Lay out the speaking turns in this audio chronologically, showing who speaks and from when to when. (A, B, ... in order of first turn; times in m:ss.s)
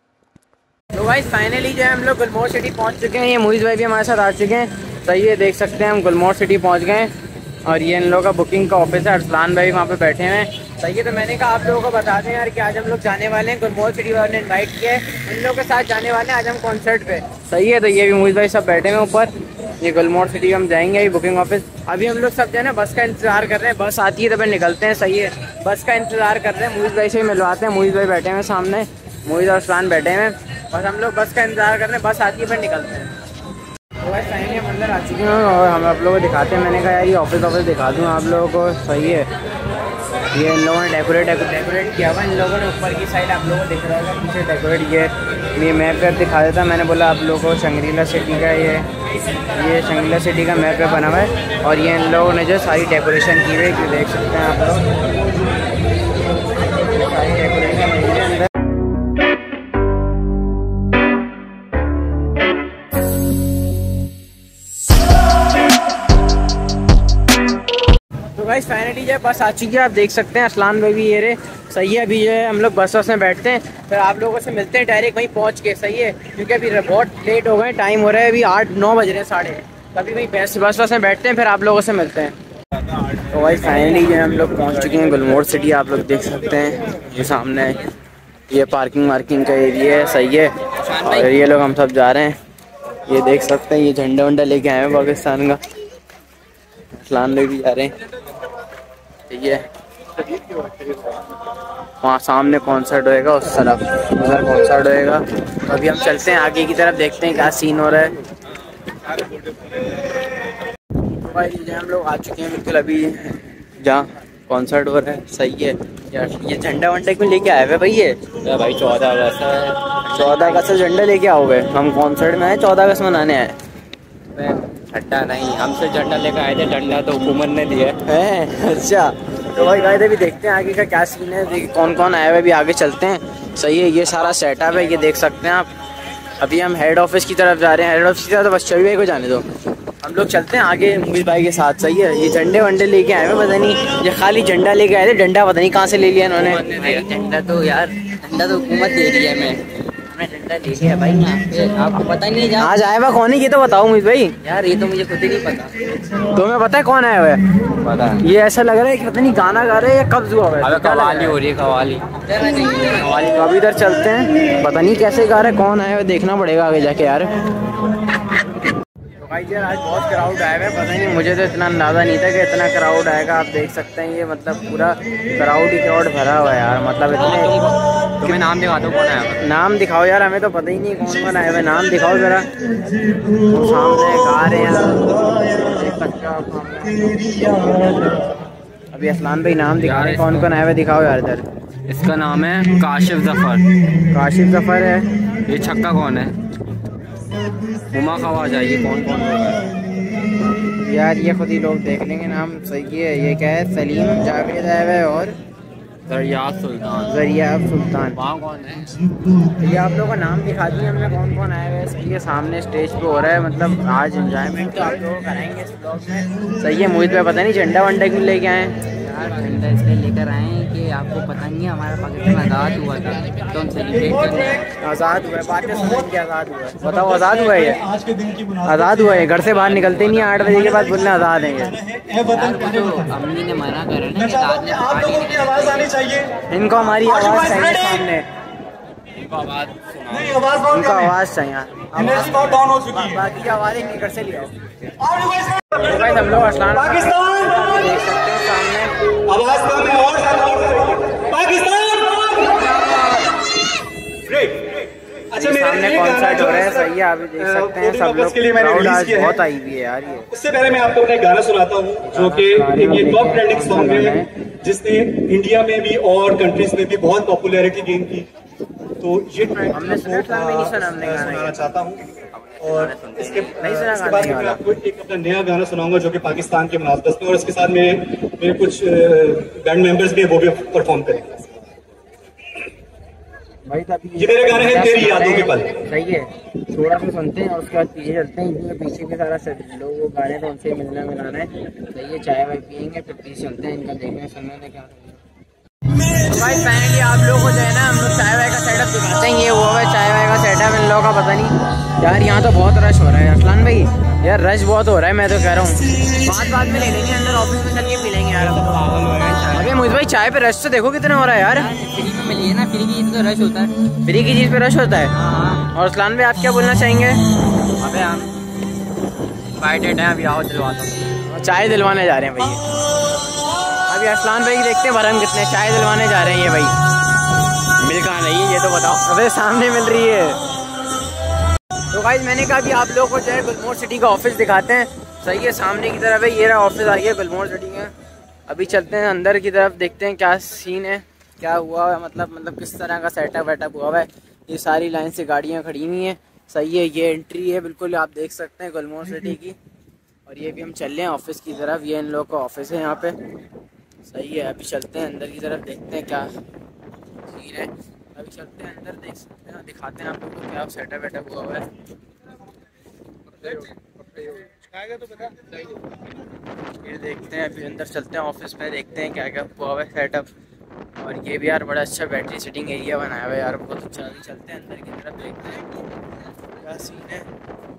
0:00.9-0:07.1 A
0:07.6-0:33.1 A
0:34.0-0:39.3 A
0:40.3-0:48.9 A
0:49.5-0:54.9 A
0:56.8-0:58.5 A
1:08.3-1:22.3 A
1:23.3-1:27.9 A
1:28.5-1:32.4 A
1:30.8-1:31.3 B
1:33.1-1:35.6 A
1:37.0-1:37.9 A
1:39.3-1:39.6 A
1:42.0-1:48.1 A
1:51.1-1:58.2 A
1:58.4-2:00.7 B
2:00.1-2:03.5 A
2:04.3-2:08.0 B
2:08.0-2:15.7 A
2:16.4-2:19.5 A
2:20.0-2:26.7 A
2:26.4-2:29.6 B
2:30.1-2:32.7 B
2:32.6-2:34.4 A
2:34.4-2:35.7 B
2:36.2-2:37.4 A
2:37.8-2:38.2 B
2:38.2-2:41.4 A
2:40.6-2:43.1 B
2:42.8-2:47.4 A
2:49.2-2:57.5 A
2:57.2-2:59.4 B
2:59.4-3:02.5 A
3:03.3-3:08.2 A
3:08.9-3:15.4 A
3:09.8-3:10.5 B
3:15.5-3:16.3 B
3:17.7-3:19.7 B
3:20.6-3:25.4 A
3:26.1-3:27.2 B
3:27.0-3:28.2 A
3:28.1-3:29.0 B
3:29.6-3:38.8 A
3:39.0-3:44.7 B
3:44.8-3:47.9 A
3:47.9-3:48.5 C
3:48.6-3:51.8 A
3:49.5-3:50.7 B
3:51.9-3:52.3 C
3:52.2-3:56.3 B
3:56.5-3:58.3 A
3:57.3-3:57.7 C
3:59.2-4:00.5 B
4:00.4-4:00.6 C
4:00.6-4:04.7 A
4:02.2-4:03.0 C
4:05.1-4:05.8 C
4:05.7-4:08.9 A
4:07.0-4:07.4 C
4:09.2-4:12.6 C
4:12.8-4:13.1 A
4:14.2-4:14.8 C
4:15.3-4:20.3 A
4:15.3-4:16.9 C
4:17.4-4:19.4 C
4:20.3-4:28.3 C
4:22.0-4:24.3 A
4:29.0-4:32.1 C
4:29.7-4:31.7 A
4:32.4-4:33.5 B
4:32.6-4:41.5 C
4:33.5-4:34.6 A
4:43.7-4:55.2 A
4:44.2-4:45.7 C
4:56.2-5:08.8 A
5:08.5-5:09.7 B
5:09.5-5:11.7 A
5:11.6-5:13.7 B
5:14.0-5:17.2 A
5:15.2-5:15.7 B
5:17.8-5:18.3 B
5:19.6-5:21.2 B
5:21.2-5:22.6 A
5:23.9-5:26.8 A
5:27.8-5:28.9 B
5:28.8-5:30.4 A
5:31.9-5:37.9 A
5:38.5-5:49.6 A
5:50.2-5:53.2 A
5:54.0-5:56.3 A
5:57.3-6:01.7 A
6:03.3-6:04.4 A
6:06.8-6:10.3 A
6:11.0-6:15.7 A
6:16.6-6:17.3 A